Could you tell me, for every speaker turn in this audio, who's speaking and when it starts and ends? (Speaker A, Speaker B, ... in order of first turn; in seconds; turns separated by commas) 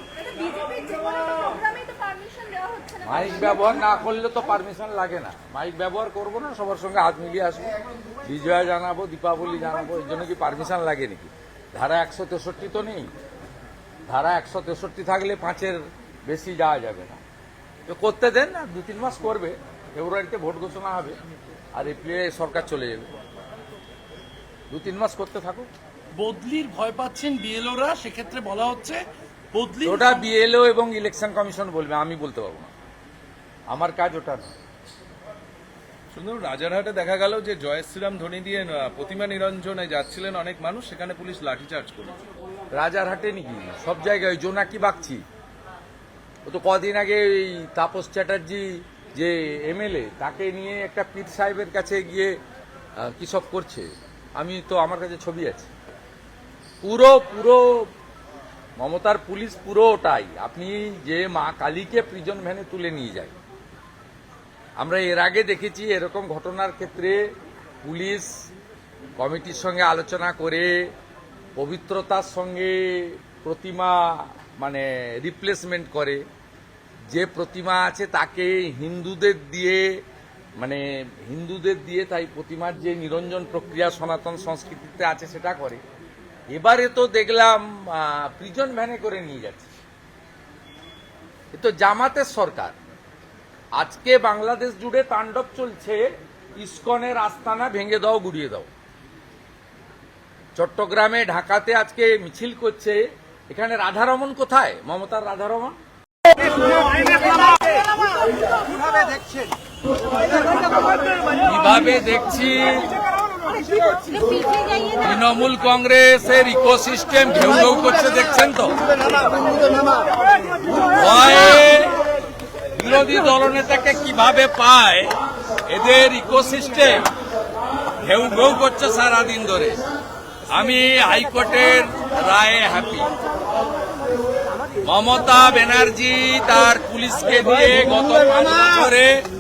Speaker A: 0.2-3.0, Speaker B: 3.0-13.1, Speaker B: 14.1-17.2, Speaker B: 17.9-21.2, Speaker B: 21.8-23.1, Speaker B: 24.7-25.7, Speaker A: 26.2-29.0, Speaker A: 29.5-30.1, Speaker B: 29.8-32.7, Speaker B: 33.7-34.5, Speaker C: 36.1-42.2, Speaker B: 42.7-45.2, Speaker B: 46.5-52.3, Speaker B: 53.0-55.7, Speaker B: 56.8-57.9, Speaker B: 58.8-63.3, Speaker B: 64.8-67.2, Speaker B: 67.8-68.3, Speaker B: 69.2-70.8, Speaker B: 71.6-76.2, Speaker B: 77.1-79.9, Speaker B: 80.6-85.8, Speaker B: 86.5-89.7, Speaker B: 91.5-92.8, Speaker B: 93.8-96.0, Speaker B: 96.6-98.7, Speaker B: 100.6-105.8, Speaker A: 107.0-109.3, Speaker B: 111.4-112.9, Speaker A: 113.6-115.0, Speaker B: 115.0-118.8, Speaker B: 120.9-122.0, Speaker B: 122.8-125.1, Speaker B: 125.7-127.0, Speaker B: 128.0-129.8, Speaker B: 130.5-133.1, Speaker B: 134.8-139.2